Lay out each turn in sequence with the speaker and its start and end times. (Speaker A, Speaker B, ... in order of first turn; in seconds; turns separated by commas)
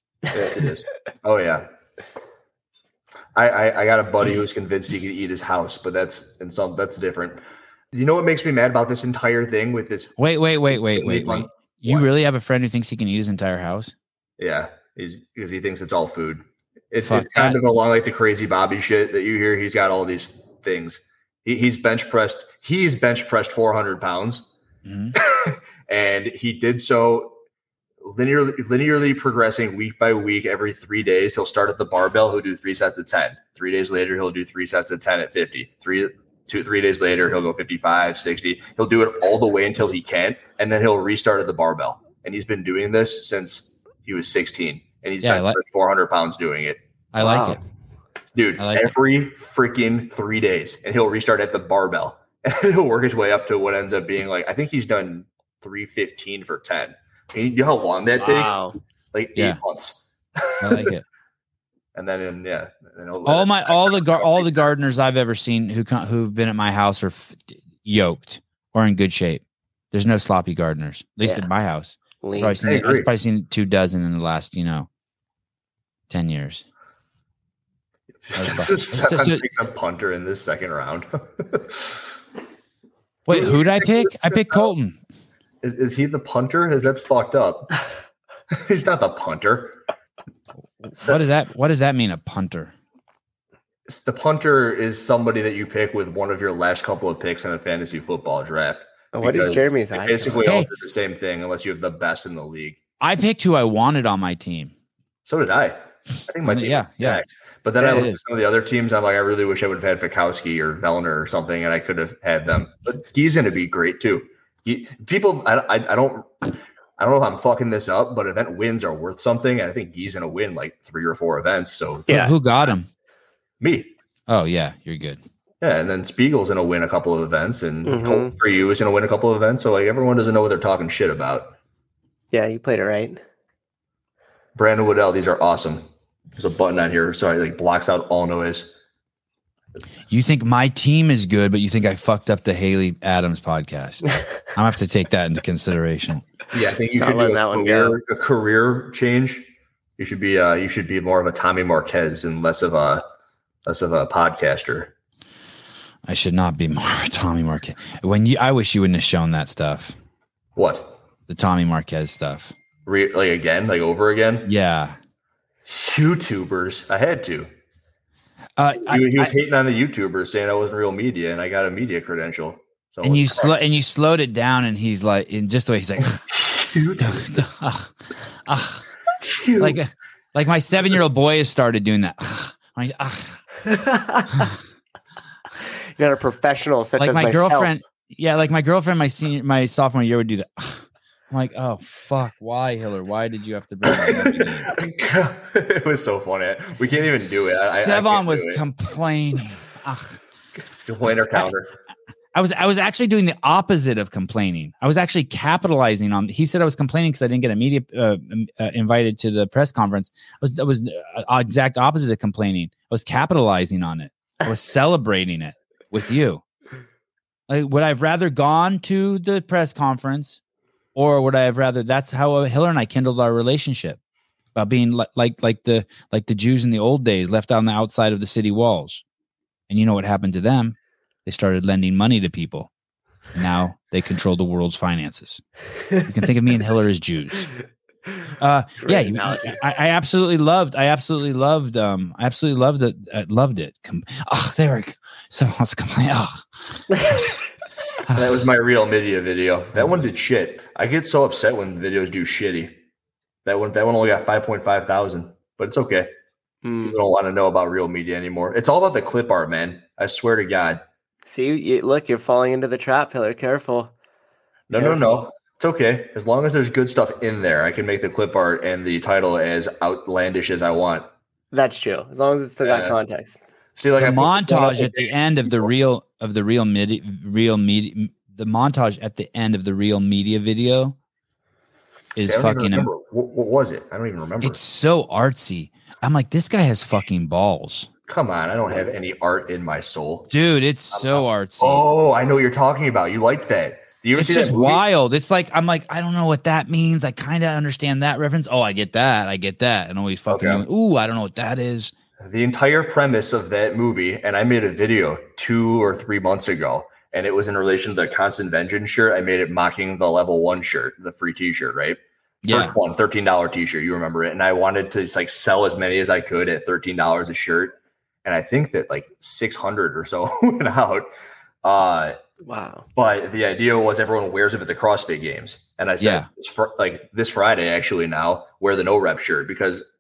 Speaker A: 0.3-1.6, Speaker A: 3.4-7.4, Speaker A: 7.9-10.2, Speaker B: 10.2-13.9, Speaker A: 10.7-12.1, Speaker A: 14.4-24.5, Speaker B: 17.0-17.6, Speaker B: 24.9-25.1, Speaker A: 25.2-27.4, Speaker A: 28.0-46.8, Speaker B: 45.2-45.6, Speaker B: 47.1-47.6, Speaker C: 47.2-47.6, Speaker A: 48.4-58.6, Speaker B: 48.6-49.0, Speaker C: 58.2-58.8, Speaker A: 59.1-60.9, Speaker B: 60.6-61.0, Speaker A: 62.0-64.7, Speaker B: 63.2-74.9, Speaker C: 72.2-72.6, Speaker A: 72.6-73.1, Speaker B: 76.1-76.7, Speaker A: 78.3-82.2, Speaker B: 78.3-79.4, Speaker B: 83.3-85.0, Speaker A: 83.3-84.7, Speaker A: 85.6-87.7, Speaker A: 88.5-89.8, Speaker B: 90.8-92.7, Speaker A: 91.0-91.2, Speaker A: 93.9-102.8, Speaker C: 99.1-100.5, Speaker B: 103.0-104.7, Speaker A: 105.3-122.2, Speaker B: 106.4-107.2, Speaker B: 107.8-108.2, Speaker C: 122.1-122.3, Speaker B: 122.1-122.9, Speaker A: 123.6-123.9, Speaker B: 124.3-125.2, Speaker A: 125.6-131.6, Speaker C: 127.8-128.3, Speaker C: 132.3-133.2, Speaker A: 134.6-135.8, Speaker A: 136.4-138.7, Speaker B: 140.1-146.2, Speaker A: 146.5-149.5, Speaker C: 146.9-148.0, Speaker A: 150.0-153.0, Speaker A: 153.7-154.9, Speaker B: 156.1-160.0, Speaker A: 160.6-161.0, Speaker B: 161.3-162.5, Speaker A: 162.9-164.5, Speaker B: 164.5-165.0, Speaker A: 165.7-167.5, Speaker B: 168.6-169.3, Speaker A: 168.8-173.6, Speaker B: 173.0-176.3, Speaker A: 176.3-177.7, Speaker B: 177.0-177.9, Speaker B: 178.4-178.8, Speaker A: 179.2-179.8, Speaker B: 179.6-183.4, Speaker C: 183.7-184.5, Speaker C: 186.0-187.7, Speaker B: 187.0-194.7, Speaker A: 193.9-198.6, Speaker B: 197.2-200.2, Speaker A: 200.9-201.7, Speaker B: 202.3-216.4, Speaker B: 217.5-220.4, Speaker B: 220.9-224.0, Speaker B: 224.6-229.0, Speaker B: 229.7-232.7, Speaker B: 233.3-235.4, Speaker B: 236.0-237.5, Speaker B: 238.4-247.2, Speaker C: 238.8-239.6, Speaker A: 248.1-252.8, Speaker B: 249.8-250.1, Speaker A: 253.4-256.1, Speaker C: 256.6-257.0, Speaker A: 256.8-260.8, Speaker C: 261.3-263.9, Speaker A: 264.7-271.1, Speaker C: 264.7-265.2, Speaker C: 271.5-273.4, Speaker A: 272.6-273.0, Speaker A: 273.8-275.7, Speaker B: 274.0-281.0, Speaker B: 282.1-282.9, Speaker A: 282.2-284.6, Speaker B: 284.4-287.9, Speaker A: 288.1-290.3, Speaker B: 290.3-291.9, Speaker A: 290.9-294.8, Speaker B: 294.2-301.9, Speaker A: 300.3-300.6, Speaker A: 302.2-321.1, Speaker B: 312.4-312.7, Speaker A: 321.6-322.2, Speaker C: 322.4-322.9, Speaker A: 323.0-329.8, Speaker B: 326.0-326.3